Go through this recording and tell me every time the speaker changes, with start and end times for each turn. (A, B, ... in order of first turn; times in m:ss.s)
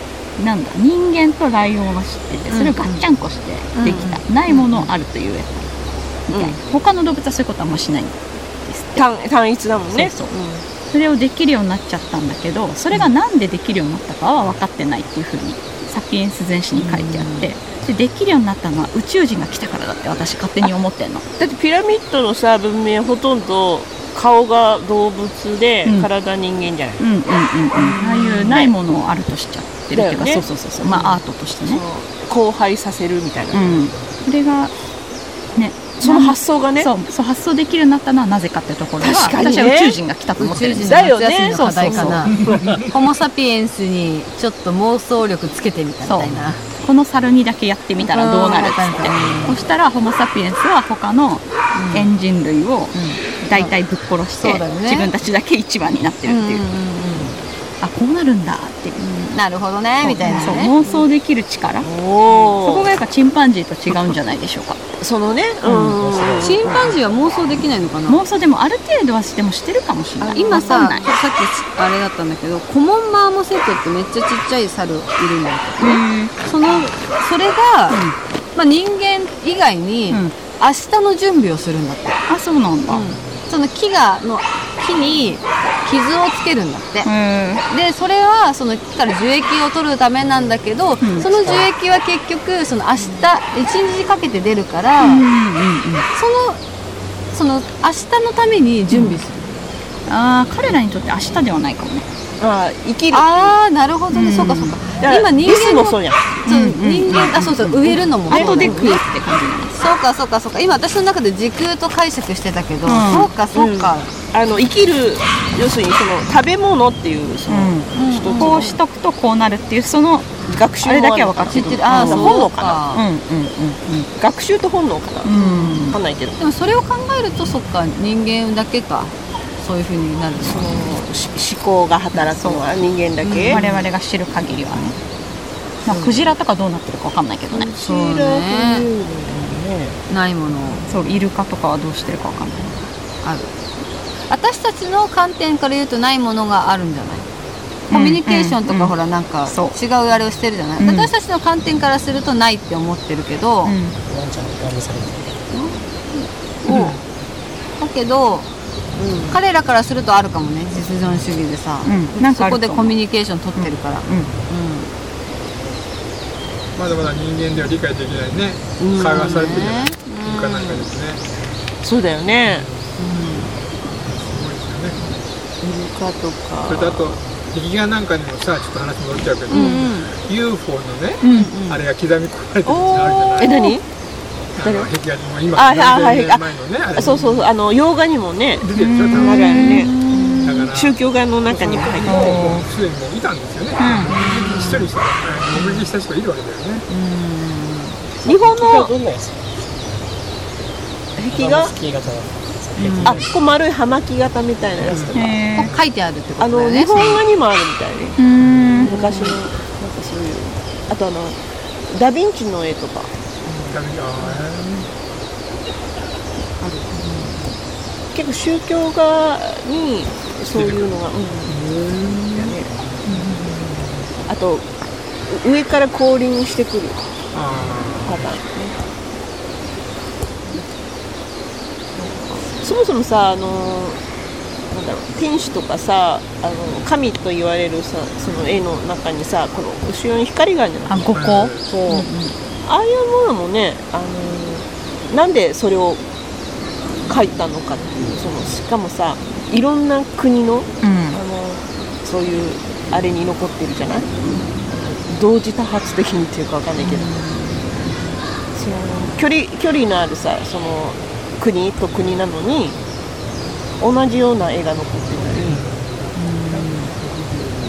0:00.4-0:05.7 A
0:02.5-0:03.0 B
0:02.5-0:02.9 C
0:03.8-0:04.2 B
0:03.8-0:04.9 C
0:06.3-0:09.0 A
0:06.3-0:06.6 C
0:09.0-0:10.6 C
0:09.9-0:10.3 A
0:10.9-0:21.2 A
0:16.8-0:17.4 B
0:21.4-0:27.0 C
0:27.0-0:31.8 A
0:27.8-0:28.7 C
0:29.9-0:33.8 C
0:33.5-0:34.7 A
0:35.5-0:42.3 A
0:36.0-0:36.9 C
0:39.0-0:40.0 C
0:40.4-0:42.4 B
0:40.8-0:42.4 C
0:42.3-0:42.8 D
0:42.5-0:42.8 E
0:42.9-0:46.6 B
0:46.0-0:56.6 A
0:48.0-0:49.6 B
0:49.2-0:49.5 E
0:51.7-0:52.1 B
0:52.9-0:53.7 B
0:54.4-0:55.1 B
0:56.2-0:57.4 B
0:57.8-0:59.0 A
0:59.0-1:00.8 B
1:00.0-1:01.9 A
1:00.2-1:01.0 C
1:01.8-1:02.9 C
1:02.6-1:04.8 A
1:05.0-1:06.9 C
1:05.6-1:05.9 A
1:06.0-1:06.9 E
1:06.4-1:08.2 B
1:08.1-1:11.1 A
1:10.2-1:11.2 C
1:10.3-1:22.2 B
1:15.8-1:16.3 A
1:17.9-1:18.1 A
1:20.1-1:20.4 A
1:22.3-1:23.0 A
1:22.9-1:27.1 B
1:27.0-1:27.6 A
1:27.7-1:35.2 B
1:31.0-1:31.3 A
1:31.4-1:31.7 E
1:35.0-1:36.0 A
1:36.1-1:36.6 B
1:37.3-1:39.4 B
1:38.9-1:39.2 A
1:40.1-1:42.1 A
1:42.4-1:43.6 C
1:43.1-1:49.0 B
1:44.1-1:44.8 A
1:45.0-1:46.4 C
1:46.4-1:49.9 A
1:48.3-1:49.0 C
1:49.8-1:54.1 B
1:52.8-1:53.3 A
1:53.5-1:58.7 C
1:57.5-2:04.1 A
1:57.9-1:58.8 B
2:00.5-2:02.8 C
2:01.5-2:03.0 B
2:04.2-2:06.4 C
2:05.2-2:06.0 A
2:05.3-2:10.7 B
2:10.4-2:13.6 C
2:12.1-2:12.6 A
2:13.2-2:13.9 B
2:13.5-2:15.0 A
2:15.8-2:17.7 A
2:15.9-2:16.3 B
2:17.5-2:20.0 C
2:17.8-2:18.9 B
2:20.1-2:20.8 B
2:20.9-2:22.7 A
2:23.2-2:23.5 B
2:24.3-2:27.2 B
2:27.9-2:28.9 A
2:27.9-2:33.8 B
2:29.5-2:29.7 A
2:30.8-2:31.1 A
2:33.6-2:34.0 A
2:34.1-2:35.4 E
2:35.5-2:37.0 B
2:37.8-2:38.5 B
2:39.0-2:39.4 C
2:39.3-2:44.9 B
2:41.8-2:43.0 A
2:43.6-2:44.3 A
2:46.8-2:51.2 D
2:48.8-2:49.5 C
2:48.9-2:50.8 B
2:51.8-2:52.7 C
2:52.4-2:53.0 D
2:53.0-2:53.5 B
2:54.1-2:55.0 D
2:55.6-2:57.2 C
2:56.7-3:03.6 D
2:59.5-3:00.1 B
2:59.5-2:59.9 C
3:01.2-3:01.5 A
3:01.2-3:01.8 B
3:02.7-3:03.8 C
3:03.2-3:03.7 B
3:04.6-3:07.3 D
3:04.6-3:04.9 C
3:05.5-3:12.3 C
3:07.0-3:07.4 B
3:08.6-3:09.9 D
3:08.7-3:09.9 A
3:09.5-3:10.7 B
3:10.4-3:11.0 D
3:11.5-3:12.5 E
3:11.5-3:16.8 D
3:12.1-3:12.6 A
3:13.8-3:14.1 A
3:14.1-3:14.9 B
3:15.5-3:15.8 B
3:16.9-3:18.0 B
3:18.2-3:19.9 E
3:18.2-3:18.9 C
3:21.2-3:21.7 C
3:21.3-3:23.5 E
3:22.8-3:23.2 B
3:23.0-3:25.3 C
3:24.8-3:25.7 D
3:25.1-3:25.7 A
3:25.6-3:27.2 B
3:26.4-3:28.2 C
3:28.2-3:28.9 A
3:28.8-3:31.4 C
3:28.8-3:29.4 B
3:31.9-3:33.1 C
3:33.6-3:34.9 D
3:36.6-3:37.2 C
3:38.1-3:41.5 C
3:40.5-3:40.9 D
3:41.5-3:42.6 D
3:42.4-3:42.7 C
3:43.1-3:43.4 B
3:43.1-3:43.8 D
3:44.2-3:44.6 C
3:45.3-3:47.0 C
3:47.3-3:48.4 D
3:48.0-3:48.7 C
3:52.0-3:54.0 C
3:54.7-4:02.1 C
4:00.9-4:01.5 A
4:01.1-4:01.8 D
4:01.9-4:02.4 B
4:02.6-4:06.0 C
4:07.1-4:14.1 C
4:10.8-4:11.2 A
4:14.7-4:17.1 C
4:16.8-4:17.6 B
4:18.5-4:22.8 C
4:23.8-4:25.6 C
4:25.5-4:25.8 D
4:26.1-4:26.9 B